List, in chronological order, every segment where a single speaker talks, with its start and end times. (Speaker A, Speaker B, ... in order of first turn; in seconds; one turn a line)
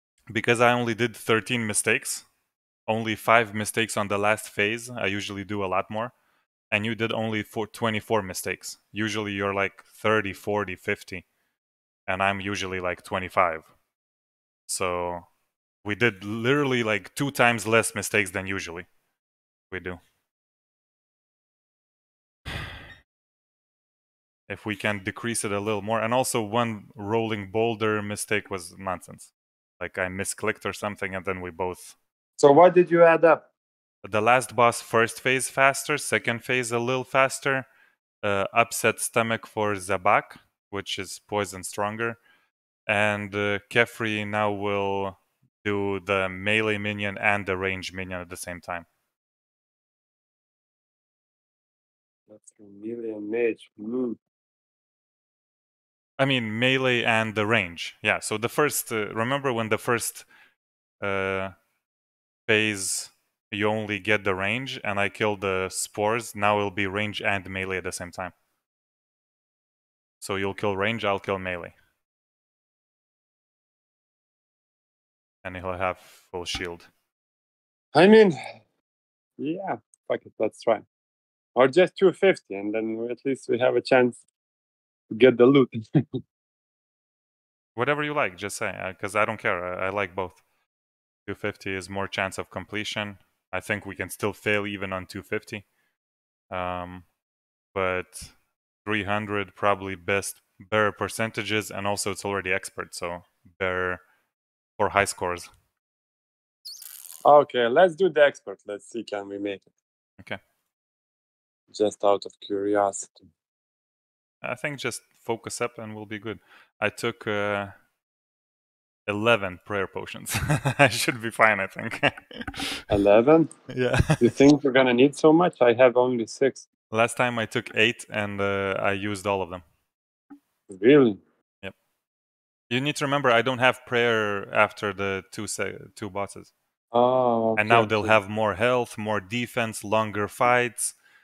Speaker A: 0.3-2.2
Speaker A: 2.9-6.1
Speaker A: 6.7-11.2
Speaker A: 12.1-13.7
Speaker A: 14.7-15.2
Speaker A: 15.8-18.9
Speaker A: 19.7-20.0
Speaker A: 24.5-31.9
Speaker B: 32.4-33.5
Speaker A: 34.0-37.7
Speaker A: 38.2-42.2
Speaker A: 42.9-48.9
Speaker B: 52.3-54.2
Speaker A: 56.2-60.3
Speaker A: 61.0-61.5
Speaker A: 62.5-68.3
Speaker A: 70.2-71.7
Speaker A: 75.4-76.9
Speaker B: 77.9-78.4
Speaker B: 79.4-80.8
Speaker B: 81.5-84.2
Speaker B: 85.1-86.2
Speaker A: 87.8-90.4
Speaker A: 91.2-95.6
Speaker A: 96.5-97.0
Speaker A: 97.7-104.0
Speaker A: 104.8-105.5
Speaker B: 107.2-109.7
Speaker B: 111.7-113.2
Speaker A: 114.4-117.7
Speaker A: 119.1-122.8
Speaker B: 122.9-123.5
Speaker A: 123.7-124.3
Speaker B: 124.2-126.7
Speaker A: 126.9-129.6
Speaker B: 130.7-131.2
Speaker A: 132.7-136.5
Speaker B: 136.9-138.2
Speaker A: 137.6-140.9